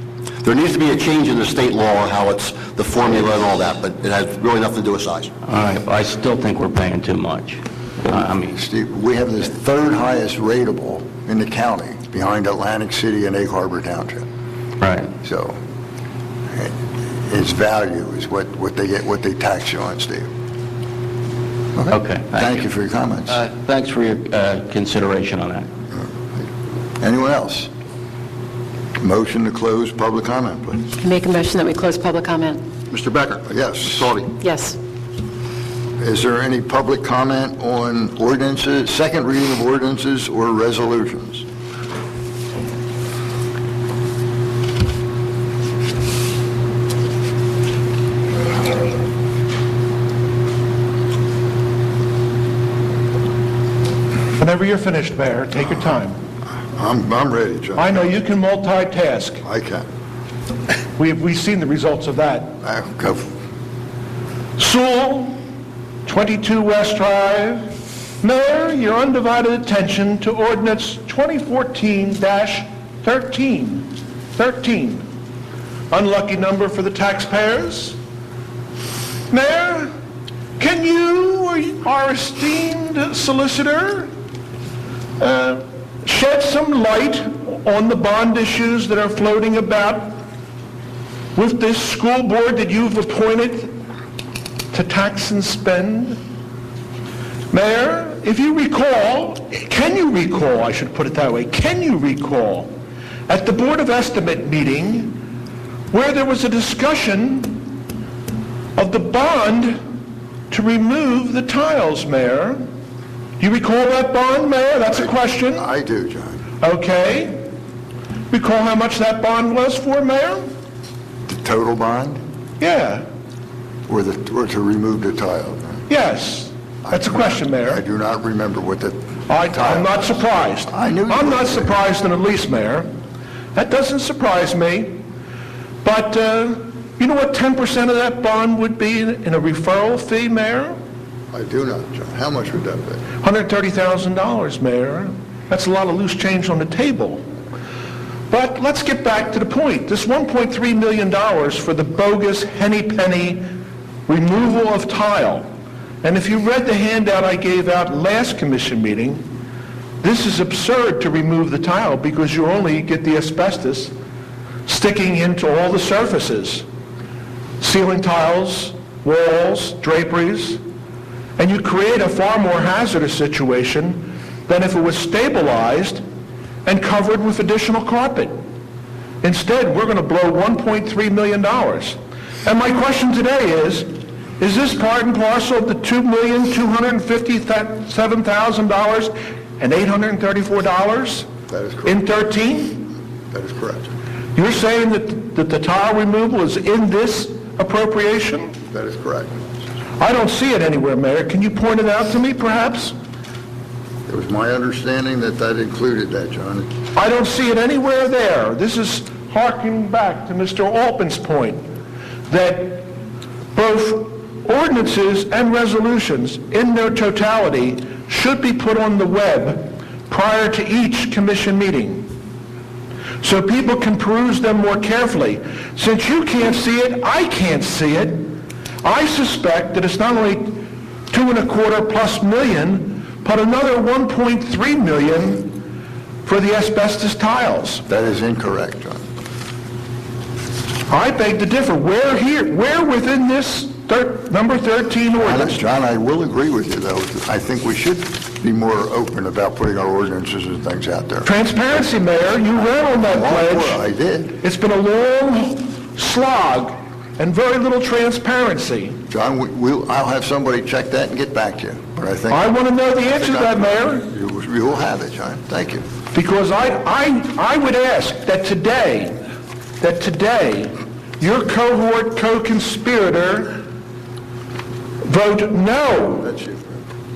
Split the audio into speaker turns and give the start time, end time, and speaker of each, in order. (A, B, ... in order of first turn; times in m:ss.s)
0:00.4-0:05.3 A
0:05.4-0:08.6 B
0:08.5-0:14.2 C
0:14.8-0:15.1 B
0:15.2-0:15.6 C
0:16.5-0:20.3 C
0:21.7-0:23.4 C
0:21.9-0:22.6 B
0:23.3-0:25.7 B
0:25.9-0:26.4 C
0:27.0-0:27.7 C
0:29.0-0:30.9 C
0:31.0-0:32.6 D
0:32.9-0:34.3 A
0:33.4-0:34.2 C
0:34.4-0:34.8 D
0:36.0-0:41.4 C
0:54.4-0:56.2 E
0:56.7-0:58.1 C
0:57.7-0:59.4 E
0:59.4-0:59.8 C
1:01.0-1:02.6 E
1:02.6-1:03.3 C
1:04.6-1:05.4 E
1:06.0-1:15.0 E
1:15.9-1:18.0 E
1:19.3-1:19.9 E
1:20.6-1:24.1 E
1:25.2-1:30.2 E
1:31.3-1:33.8 E
1:34.7-1:36.2 E
1:37.5-1:42.7 E
1:43.3-1:45.2 E
1:45.9-1:47.7 E
1:48.8-1:49.8 E
1:50.5-1:52.6 E
1:53.4-1:55.7 E
1:54.9-1:56.4 C
1:56.6-1:57.4 E
1:58.3-2:00.5 E
2:01.3-2:02.2 C
2:02.6-2:03.0 E
2:03.9-2:05.8 C
2:05.9-2:07.8 E
2:06.8-2:11.8 C
2:09.3-2:12.9 E
2:13.5-2:15.0 E
2:15.8-2:20.8 E
2:21.3-2:23.0 C
2:23.2-2:27.2 E
2:28.3-2:33.4 E
2:34.1-2:35.4 E
2:36.0-2:39.2 E
2:40.0-2:43.9 E
2:44.6-2:46.6 E
2:47.6-2:50.6 E
2:51.4-2:56.0 E
2:56.6-2:58.4 E
2:59.2-3:11.3 E
3:11.5-3:12.1 C
3:11.8-3:12.9 E
3:13.3-3:13.9 C
3:14.4-3:18.5 E
3:18.7-3:19.4 C
3:20.0-3:22.9 E
3:24.1-3:26.7 C
3:26.9-3:31.6 E
3:32.3-3:32.9 E
3:33.5-3:42.1 E
3:43.2-3:55.6 E
3:56.2-3:57.8 E
3:57.9-3:59.0 C
4:00.9-4:05.6 E
4:05.2-4:11.3 C
4:11.2-4:13.8 E
4:13.1-4:14.4 C
4:14.4-4:19.0 E
4:19.1-4:22.6 C
4:22.3-4:24.1 E
4:23.1-4:25.8 C
4:26.1-4:29.2 E
4:29.8-4:33.6 E
4:35.0-4:36.3 E
4:36.2-4:36.8 C